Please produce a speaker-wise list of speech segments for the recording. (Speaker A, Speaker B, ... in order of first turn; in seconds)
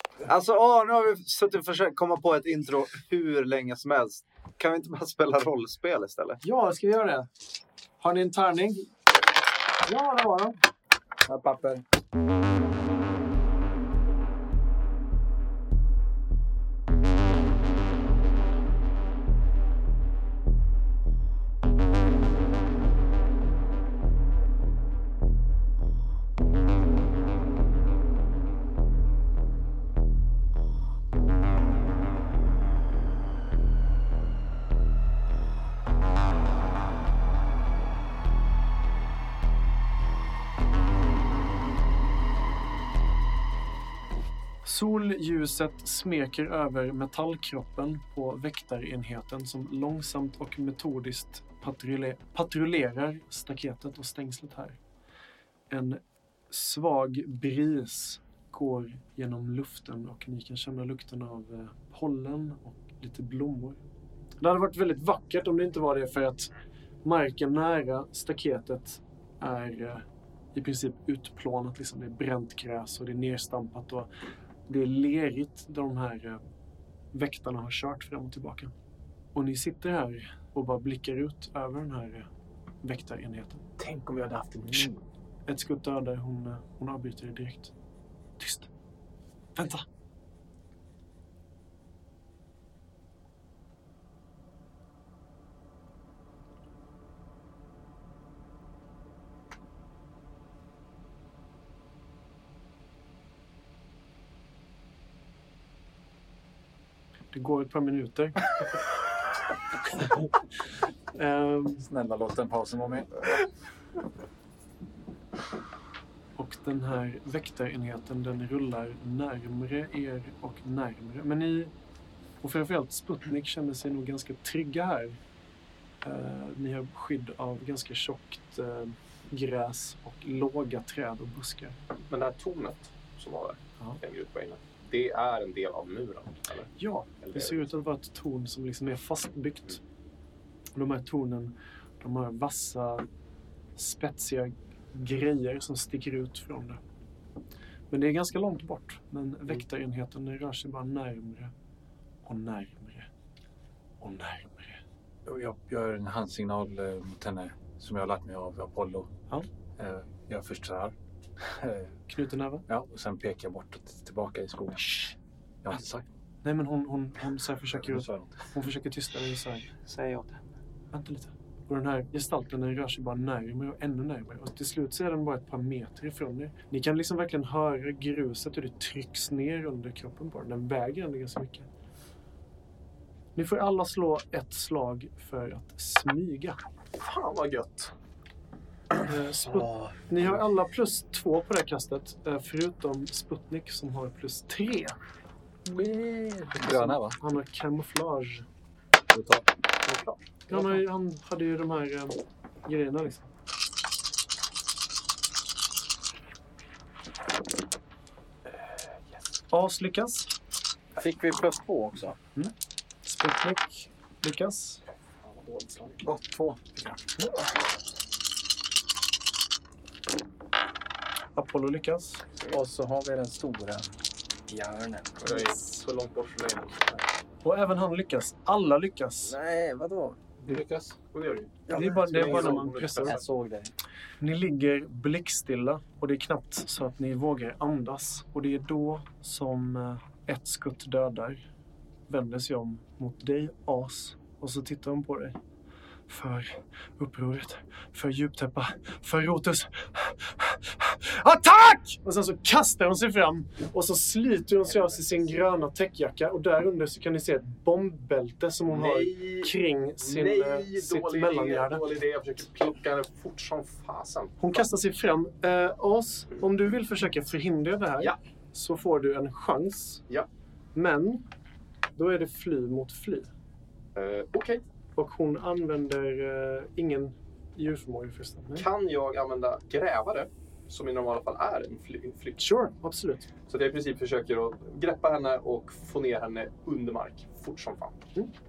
Speaker A: 0.3-6.4, 170.0-170.2
Speaker B: 6.4-7.3, 8.0-8.9, 9.8-10.6, 44.6-54.8, 55.7-63.8, 64.4-66.5, 67.0-74.1, 74.7-76.4, 77.1-78.7, 79.3-82.3, 82.8-83.6, 85.5-87.7, 88.4-88.7, 89.6-89.8, 107.3-108.4, 110.0-110.3, 111.1-111.8, 116.4-121.7, 122.4-125.2, 126.0-131.8, 136.8-139.8, 140.7-143.0, 143.8-146.8, 147.9-151.5, 152.2-153.1, 154.0-154.8, 162.1-162.6, 166.4-169.6, 170.9-181.7, 183.3-186.6, 189.1-194.9, 196.7-198.4, 200.5-203.3, 209.5-210.3, 213.0-214.8, 221.3-222.2, 225.2-225.5, 227.4-229.3, 231.7-233.2, 234.2-241.4, 242.1-245.3, 246.1-261.8, 264.4-270.0, 270.7-271.2, 271.9-273.3, 274.9-278.7, 282.4-283.3
Speaker C: 11.2-11.8, 210.9-212.2, 222.5-223.9, 224.4-225.3, 229.2-230.2, 231.7-233.7
Speaker D: 83.8-85.0, 132.1-136.7, 137.2-137.6, 187.0-187.9, 199.9-200.8, 215.2-216.0, 225.2-227.0, 231.1-233.2, 258.7-264.6, 273.9-274.6, 278.6-282.4, 283.5-288.0
Speaker E: 111.8-113.3, 155.2-159.1, 159.8-161.9, 162.7-166.1, 167.8-168.3, 195.7-197.2, 199.1-199.4, 216.0-217.0, 230.4-230.9